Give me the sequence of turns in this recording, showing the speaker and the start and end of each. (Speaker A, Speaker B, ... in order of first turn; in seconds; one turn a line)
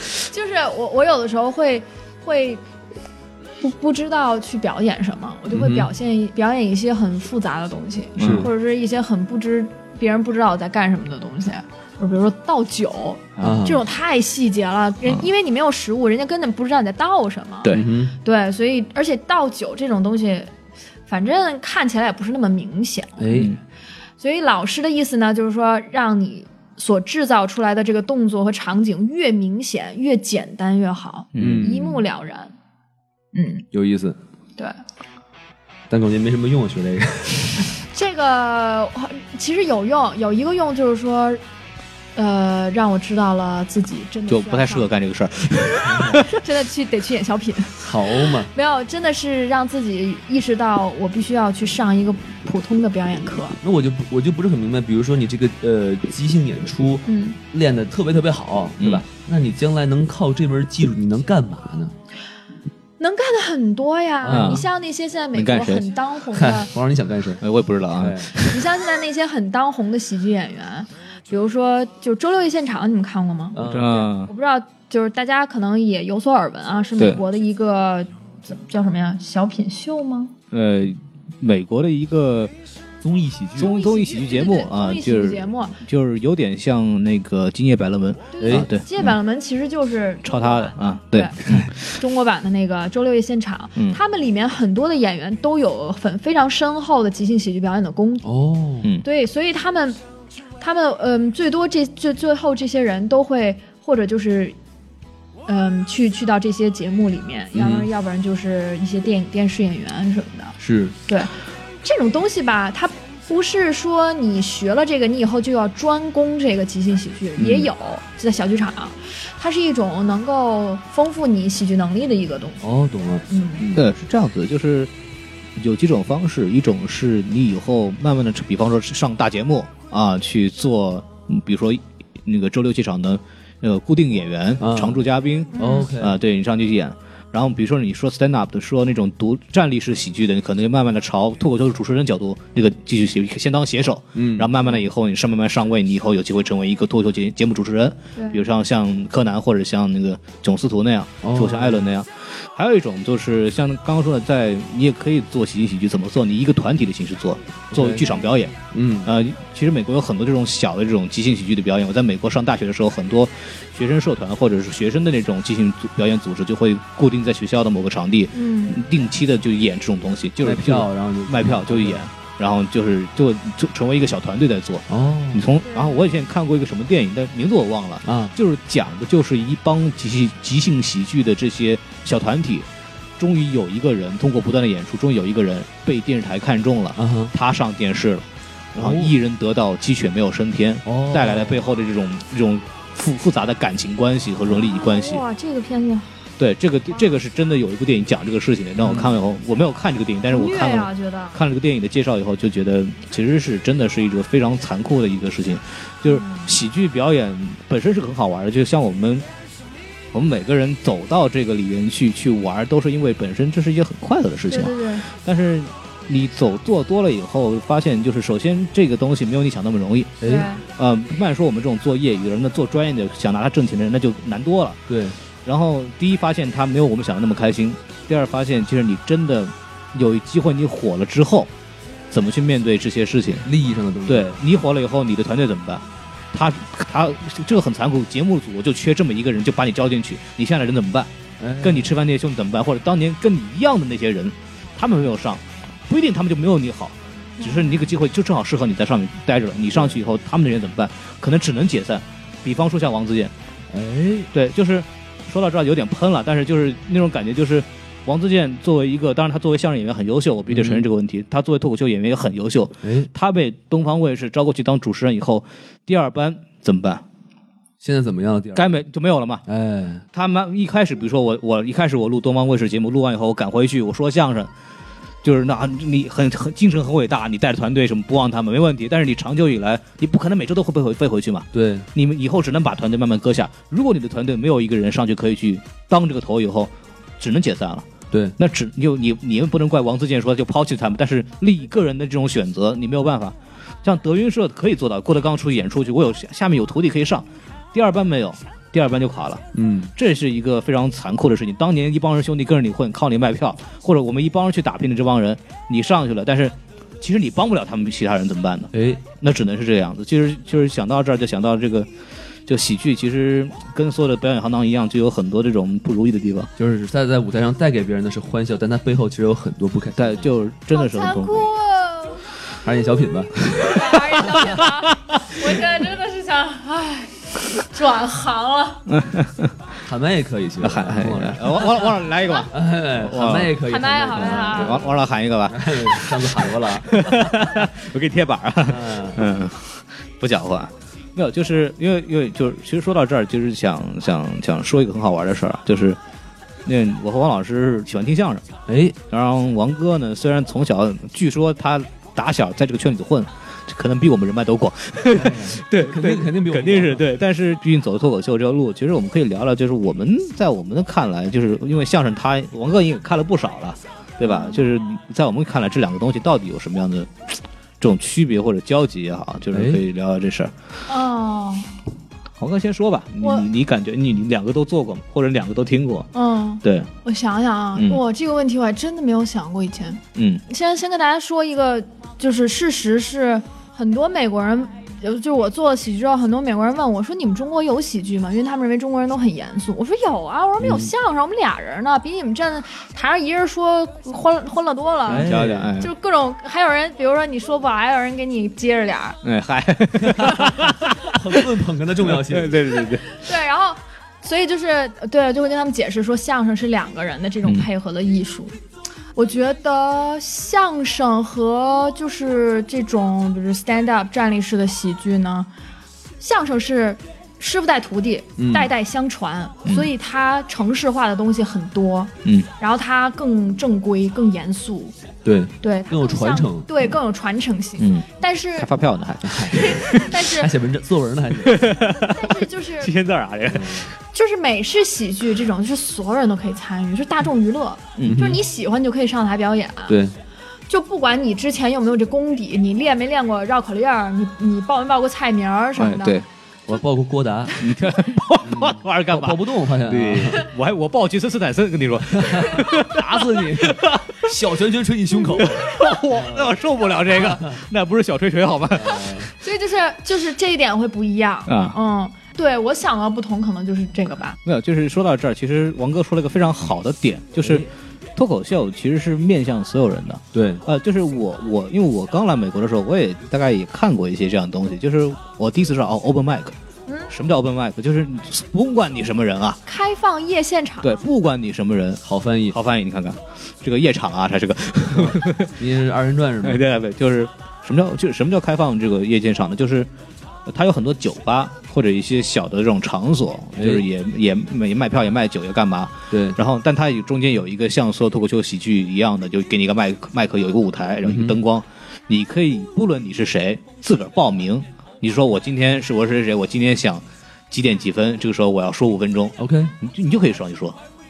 Speaker A: 0.2-2.6
Speaker A: 3.6-20.5
Speaker B: 5.5-5.9
Speaker C: 8.2-8.5
Speaker B: 8.2-8.5
Speaker C: 13.4-13.6
Speaker B: 13.4-13.8
Speaker B: 17.7-18.1
Speaker A: 21.1-23.5
Speaker B: 23.2-23.5
Speaker C: 23.3-23.6
Speaker A: 24.2-32.5
Speaker C: 31.3-31.7
Speaker B: 31.4-32.0
Speaker A: 33.4-33.6
Speaker B: 33.7-34.2
Speaker B: 35.9-37.7
Speaker A: 37.9-41.4
Speaker A: 42.1-44.9
Speaker C: 44.3-46.3
Speaker B: 45.8-46.2
Speaker A: 46.2-53.6
Speaker B: 47.8-48.5
Speaker B: 53.6-61.9
Speaker A: 57.1-57.4
Speaker C: 58.8-59.0
Speaker A: 63.0-66.7
Speaker B: 64.2-64.6
Speaker C: 64.3-64.6
Speaker C: 65.3-65.9
Speaker B: 66.3-67.4
Speaker C: 67.4-68.6
Speaker B: 68.0-68.3
Speaker A: 68.5-80.3
Speaker B: 73.5-73.9
Speaker C: 73.7-74.3
Speaker C: 80.5-82.5
Speaker B: 83.0-83.7
Speaker C: 83.6-89.2
Speaker A: 83.6-85.8
Speaker A: 88.3-98.3
Speaker B: 88.4-88.7
Speaker C: 90.2-91.7
Speaker B: 98.2-98.9
Speaker A: 99.0-100.0
Speaker A: 100.6-104.6
Speaker A: 105.5-111.3
Speaker B: 107.5-107.9
Speaker B: 110.6-111.0
Speaker A: 111.8-122.7
Speaker C: 117.4-117.7
Speaker B: 122.6-123.9
Speaker A: 123.3-123.7
Speaker C: 123.7-124.9
Speaker C: 125.6-182.7
Speaker B: 134.6-135.0
Speaker A: 135.5-135.9
Speaker B: 135.6-136.2
Speaker B: 144.1-144.6
Speaker A: 148.2-148.5
Speaker B: 151.2-151.8
Speaker B: 157.7-158.1
Speaker A: 158.0-158.3
Speaker B: 158.7-159.1
Speaker A: 168.3-168.8
Speaker B: 170.4-172.0
Speaker B: 174.9-175.5
Speaker A: 175.6-176.3
Speaker B: 178.1-178.3
Speaker C: 183.2-195.2
Speaker B: 187.0-187.3
Speaker B: 188.8-189.1
Speaker B: 190.8-191.7
Speaker A: 194.5-196.2
Speaker C: 196.4-209.3
Speaker B: 198.8-199.1
Speaker A: 200.3-201.4
Speaker A: 206.1-206.5
Speaker C: 210.1-220.2
Speaker A: 214.5-215.1
Speaker B: 220.2-220.5
Speaker A: 220.2-220.6
Speaker C: 220.7-224.8
Speaker B: 224.9-225.2
Speaker C: 225.4-231.5
Speaker C: 232.1-233.5
Speaker B: 233.5-234.4
Speaker C: 234.1-253.3
Speaker B: 241.4-241.9
Speaker A: 247.4-247.9
Speaker B: 253.7-254.3
Speaker C: 254.3-267.0
Speaker B: 260.5-260.8
Speaker B: 262.8-263.1
Speaker B: 267.8-268.8
Speaker C: 268.6-269.4
Speaker B: 269.5-270.1
Speaker C: 270.1-274.5
Speaker C: 275.2-287.9
Speaker B: 281.5-281.9
Speaker C: 288.4-299.4
Speaker B: 299.5-299.9
Speaker C: 299.9-311.9
Speaker B: 308.7-309.1
Speaker C: 312.5-316.5
Speaker B: 316.6-320.3
Speaker C: 320.0-321.5
Speaker A: 320.7-322.3
Speaker B: 322.6-324.4
Speaker A: 323.5-328.8
Speaker C: 328.9-329.5
Speaker B: 329.9-331.9
Speaker C: 330.6-333.6
Speaker B: 332.5-334.8
Speaker A: 333.6-335.0
Speaker C: 334.1-346.0
Speaker B: 335.5-337.3
Speaker B: 338.7-339.2
Speaker C: 346.6-348.6
Speaker B: 348.7-349.0
Speaker C: 349.1-367.1
Speaker B: 355.1-357.1
Speaker A: 364.2-364.6
Speaker C: 367.8-370.5
Speaker B: 369.5-369.8
Speaker A: 370.9-371.7
Speaker C: 372.4-376.1
Speaker A: 373.2-373.5
Speaker A: 376.1-399.2
Speaker C: 376.6-376.9
Speaker C: 377.8-378.0
Speaker C: 380.2-380.4
Speaker B: 390.6-390.9
Speaker B: 395.1-395.7
Speaker C: 395.1-395.9
Speaker C: 399.2-401.4
Speaker B: 400.1-402.7
Speaker C: 402.0-403.1
Speaker A: 403.1-408.6
Speaker A: 409.1-415.5
Speaker A: 416.2-425.0
Speaker B: 418.4-418.7
Speaker C: 419.6-419.9
Speaker B: 425.2-426.7
Speaker A: 425.6-428.7
Speaker C: 427.8-428.1
Speaker C: 428.6-430.1
Speaker B: 429.2-431.7
Speaker A: 429.4-430.5
Speaker C: 431.4-433.9
Speaker A: 431.9-432.9
Speaker B: 433.5-433.9
Speaker A: 434.1-440.0
Speaker C: 438.0-438.2
Speaker B: 438.1-438.4
Speaker B: 439.9-440.1
Speaker A: 440.7-446.2
Speaker C: 445.8-446.3
Speaker B: 446.7-447.6
Speaker C: 447.6-454.3
Speaker B: 448.4-450.5
Speaker B: 452.1-456.5
Speaker C: 455.4-459.1
Speaker B: 457.2-457.6
Speaker B: 458.7-459.3
Speaker A: 459.4-464.4
Speaker C: 461.5-461.8
Speaker C: 464.4-476.6
Speaker B: 470.3-470.6
Speaker A: 476.9-477.1
Speaker C: 477.1-479.6
Speaker A: 479.7-481.0
Speaker C: 480.8-485.6
Speaker B: 482.1-482.6
Speaker B: 485.0-486.6
Speaker C: 486.4-489.9
Speaker C: 490.5-510.8
Speaker B: 493.6-493.9
Speaker B: 496.1-496.4
Speaker B: 501.1-501.4
Speaker B: 509.4-509.7